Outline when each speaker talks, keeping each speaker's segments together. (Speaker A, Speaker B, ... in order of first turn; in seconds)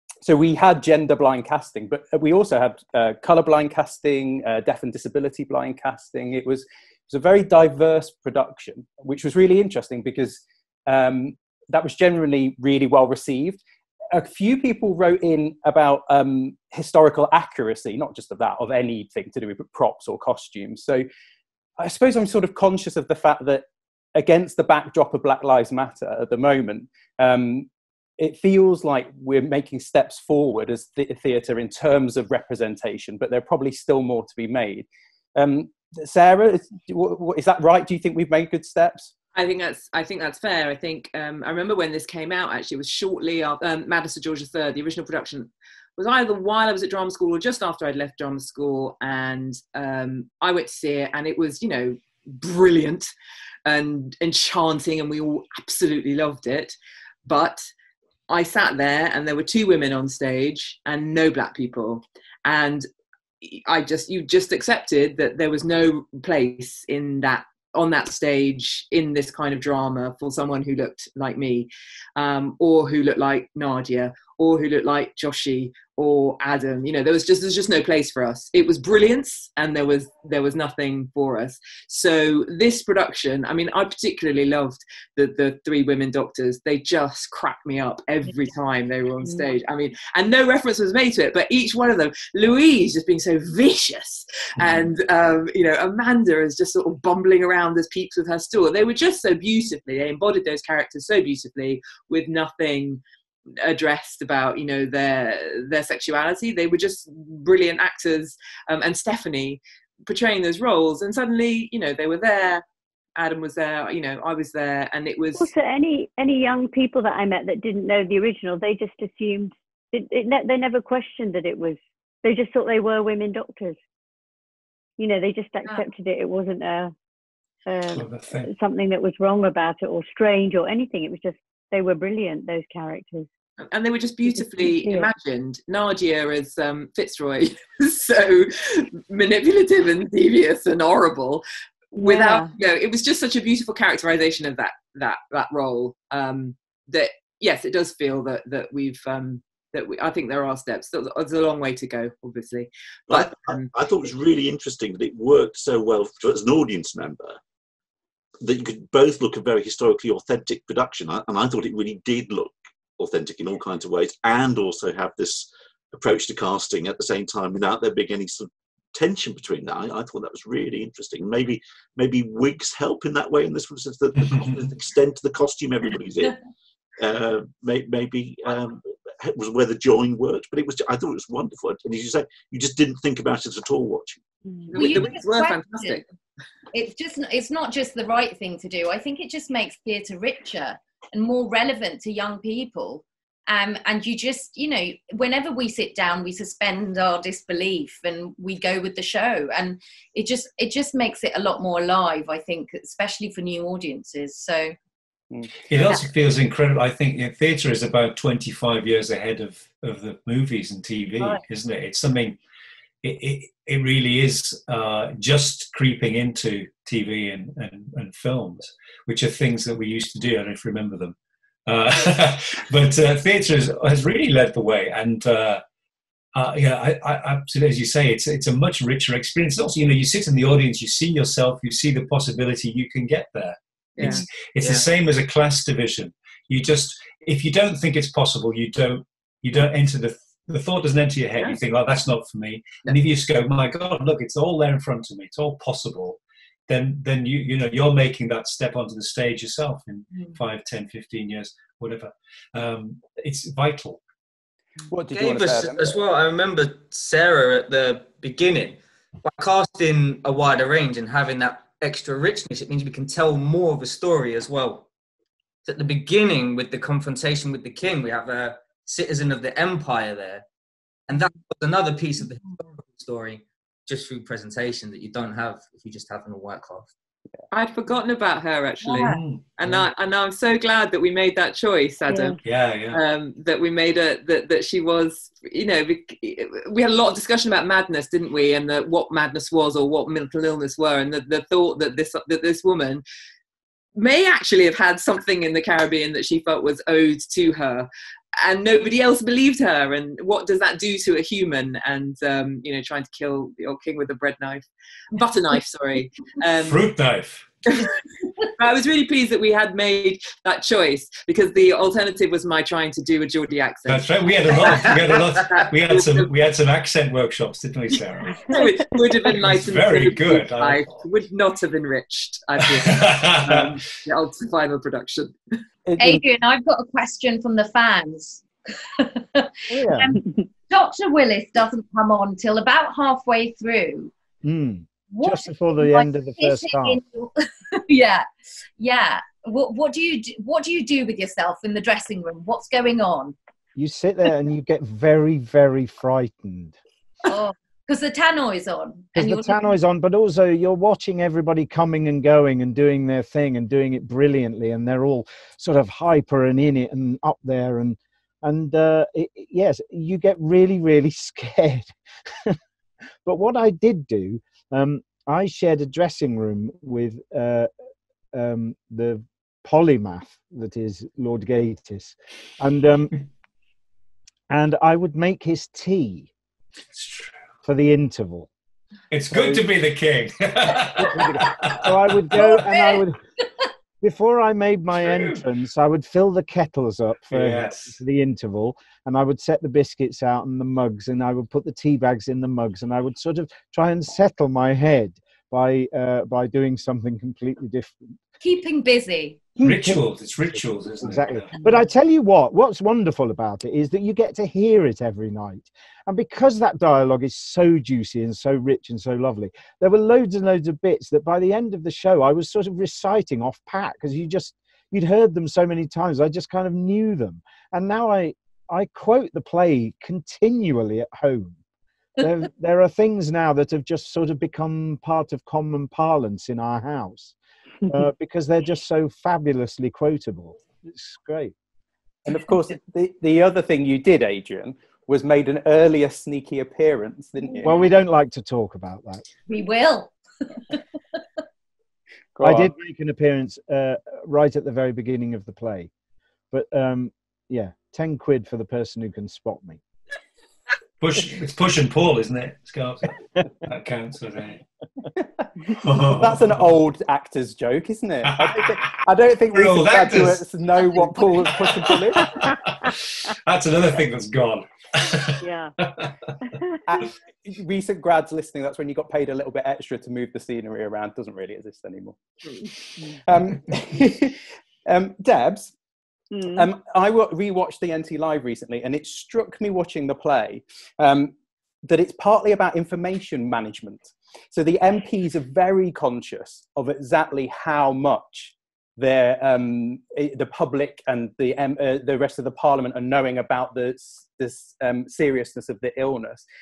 Speaker A: 0.2-13.6, 14.1-21.1, 21.8-23.6, 24.1-27.7, 28.2-39.1, 205.3-205.6, 254.8-255.9, 325.9-326.2, 432.2-437.8, 442.3-442.7, 455.2-455.4, 456.0-462.4, 466.9-472.2, 473.0-475.7, 476.5-481.3, 481.8-496.4
Speaker B: 39.3-53.1, 53.6-57.7, 58.3-62.9, 63.4-103.0, 103.6-112.6, 113.2-115.5, 133.6-141.4, 142.0-153.7, 184.7-186.1, 234.0-234.8, 277.5-282.4, 282.9-293.0, 293.9-306.9, 307.7-307.9, 308.6-316.3, 318.5-325.5
Speaker C: 89.2-89.5, 115.3-123.8, 125.0-126.9, 127.7-133.3, 134.3-135.1, 141.9-142.5, 282.1-282.4, 401.5-401.8, 465.4-465.7, 466.6-467.0, 476.3-476.7
Speaker D: 127.9-128.5, 174.3-174.6, 205.7-212.4, 213.0-221.1, 221.7-225.6, 226.3-254.0, 279.0-279.9, 282.4-283.0, 306.6-307.5, 313.9-318.5, 319.2-321.1, 322.7-323.8, 376.9-377.4, 379.1-382.4, 385.1-385.4, 387.3-387.9, 399.6-401.5, 451.0-454.6, 455.8-456.6, 458.3-458.9, 459.5-460.4, 460.9-466.1
Speaker E: 153.1-157.4, 158.4-176.4, 177.0-184.2
Speaker F: 184.7-186.0, 186.7-204.7, 326.0-334.1, 335.1-338.3, 338.8-343.4, 347.2-349.6, 382.4-383.0, 398.4-399.4, 439.5-440.8
Speaker G: 255.1-264.9, 265.6-270.4, 271.1-276.9
Speaker H: 329.7-330.1, 334.4-337.0, 343.8-346.8, 349.1-362.6, 363.2-367.7, 368.3-373.1, 374.5-376.3, 377.6-378.5, 380.9-383.2, 384.0-398.1, 401.0-421.6, 422.2-427.4, 427.9-431.5, 437.6-439.2, 442.4-445.9, 446.5-449.8